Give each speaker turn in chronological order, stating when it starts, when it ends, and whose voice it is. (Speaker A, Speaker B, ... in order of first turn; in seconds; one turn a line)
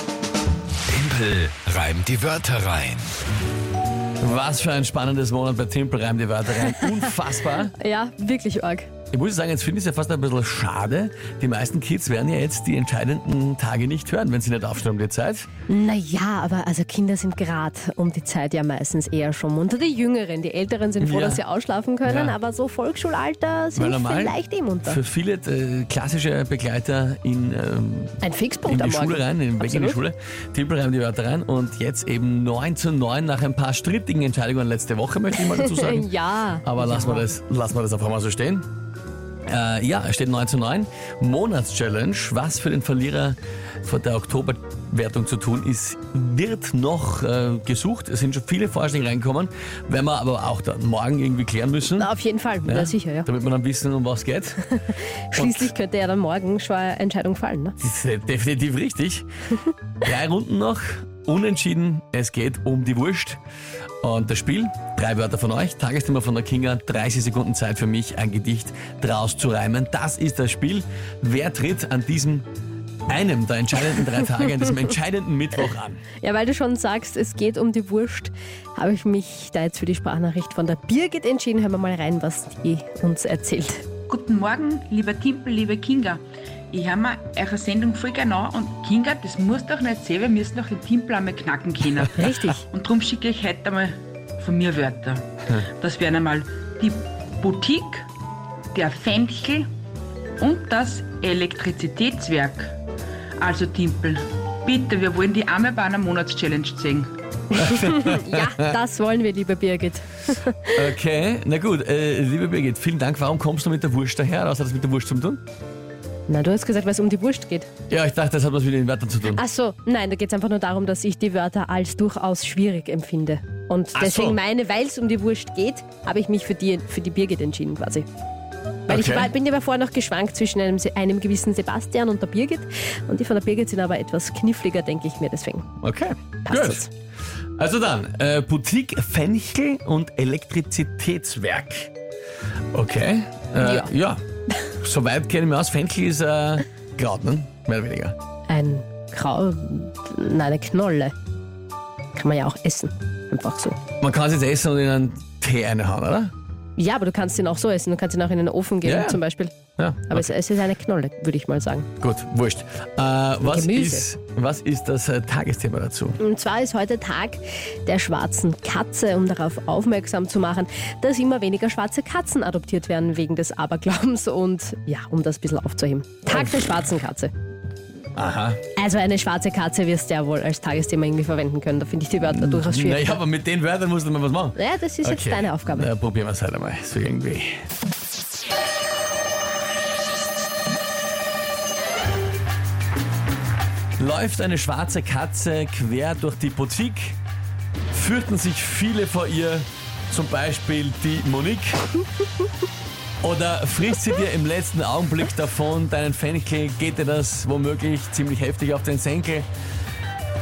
Speaker A: 0.9-3.1
Speaker B: 4.2-7.7
Speaker C: 6.6-7.1
Speaker C: 7.8-8.9
Speaker B: 9.1-15.5
Speaker C: 15.7-25.0
Speaker B: 21.0-21.4
Speaker B: 22.0-22.4
Speaker B: 23.8-36.1
Speaker C: 28.2-30.0
Speaker C: 35.4-37.3
Speaker B: 36.6-38.7
Speaker B: 39.5-52.1
Speaker C: 52.0-53.3
Speaker B: 52.6-54.7
Speaker C: 54.7-57.8
Speaker B: 55.3-55.7
Speaker B: 57.8-59.3
Speaker B: 60.0-63.4
Speaker B: 64.0-72.5
Speaker B: 73.1-76.0
Speaker C: 76.2-83.9
Speaker D: 84.1-98.1
Speaker C: 92.1-92.6
Speaker D: 98.7-99.7
Speaker D: 100.4-102.8
Speaker D: 103.4-107.1
Speaker C: 107.5-110.8
Speaker B: 107.5-108.7
Speaker B: 110.8-115.4
Speaker C: 116.3-117.7
Speaker B: 117.9-119.4
Speaker C: 119.3-128.1
Speaker B: 124.0-124.4
Speaker C: 128.9-135.7
Speaker B: 128.9-129.3
Speaker B: 135.8-136.8
Speaker C: 136.4-136.9
Speaker B: 137.6-141.9
Speaker B: 142.7-148.2
Speaker C: 143.6-143.9
Speaker C: 148.5-151.1
Speaker C: 152.2-153.8
Speaker B: 154.0-156.3
Speaker C: 156.8-159.6
Speaker B: 158.8-159.2
Speaker B: 159.8-160.3
Speaker C: 160.1-161.9
Speaker B: 162.0-166.2
Speaker C: 163.4-164.0
Speaker C: 166.2-177.3
Speaker B: 178.2-178.6
Speaker C: 178.8-183.2
Speaker B: 182.2-187.7
Speaker C: 184.6-185.9
Speaker B: 194.0-197.2
Speaker B: 197.9-201.9
Speaker B: 203.2-209.5